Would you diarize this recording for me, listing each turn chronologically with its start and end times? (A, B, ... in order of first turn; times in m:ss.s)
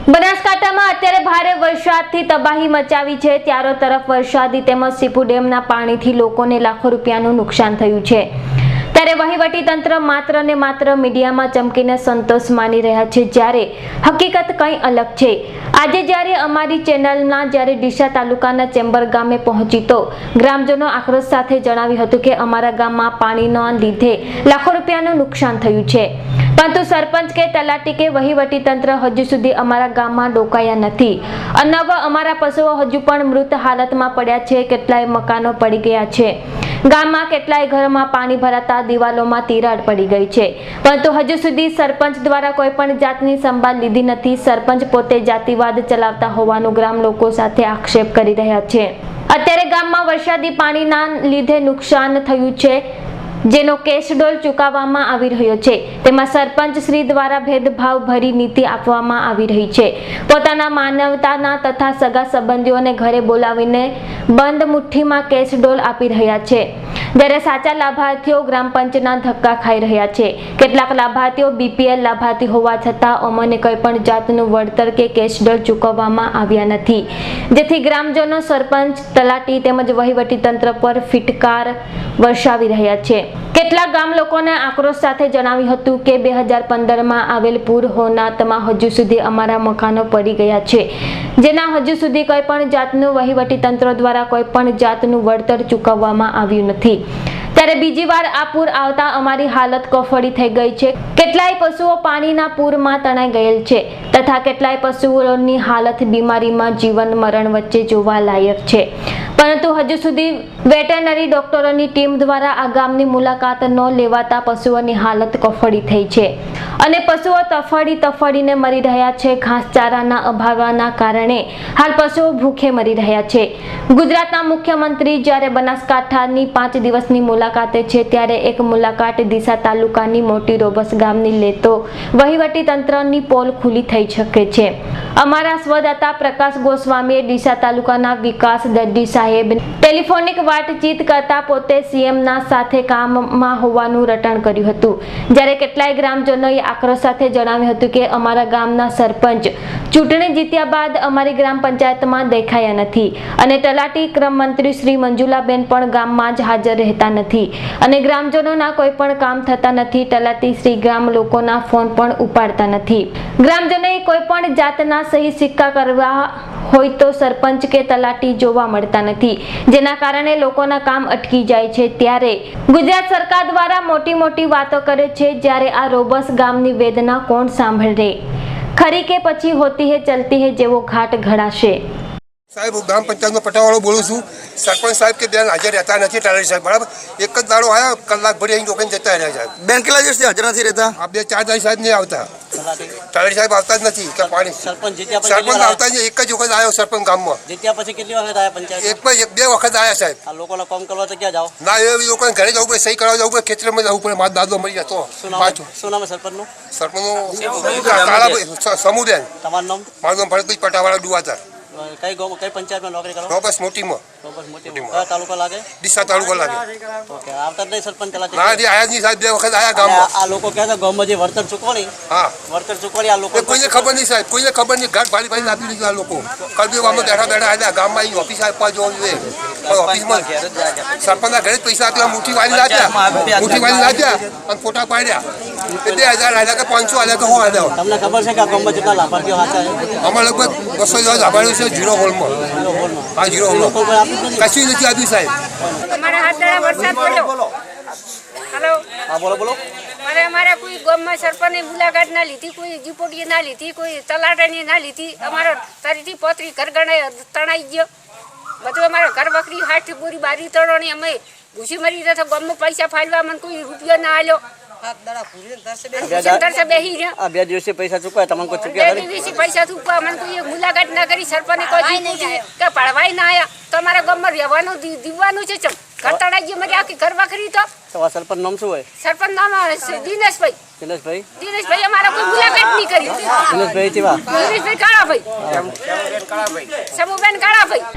0:00.1-0:08.3 A
0:08.9-0:36.3 A
0:36.9-0:52.8 A
0:53.5-1:37.0 A
1:37.6-2:58.2 A
2:58.8-3:01.8 A
3:02.5-3:09.6 B
3:09.6-3:11.0 C
3:11.0-3:12.4 B
3:12.6-3:13.0 D
3:13.0-3:14.7 B
3:14.2-3:15.8 D
3:15.2-3:17.4 B
3:17.5-3:19.0 D
3:18.8-3:20.2 B
3:20.3-3:21.5 D
3:21.6-3:25.7 B
3:25.2-3:26.5 D
3:26.7-3:29.3 B
3:27.6-3:27.8 C
3:27.9-3:28.4 D
3:29.4-3:29.9 D
3:30.0-3:31.4 B
3:31.7-3:33.4 D
3:33.3-3:34.0 B
3:34.2-3:35.7 D
3:34.7-3:35.1 B
3:35.8-3:36.7 B
3:37.1-3:38.6 D
3:38.3-3:40.1 B
3:39.7-3:41.9 D
3:42.1-3:42.4 B
3:42.5-3:44.0 D
3:43.3-3:50.3 B
3:49.9-3:50.9 C
3:50.9-3:55.2 B
3:52.5-3:54.1 C
3:55.7-3:56.2 D
3:55.8-3:57.8 B
3:57.7-4:00.1 D
4:00.0-4:02.5 B
4:02.5-4:04.5 D
4:03.2-4:03.8 B
4:04.4-4:05.4 B
4:05.9-4:07.4 E
4:08.5-4:08.8 E
4:09.1-4:09.6 D
4:10.0-4:17.9 E
4:18.6-4:24.4 E
4:26.0-4:27.2 E
4:26.0-4:26.5 D
4:27.2-4:29.3 D
4:28.7-4:37.7 E
4:37.9-4:38.9 D
4:39.0-4:40.6 E
4:40.8-4:41.3 D
4:41.4-4:43.5 E
4:43.3-4:44.3 D
4:44.3-4:45.3 E
4:45.4-4:45.8 D
4:46.9-4:47.8 E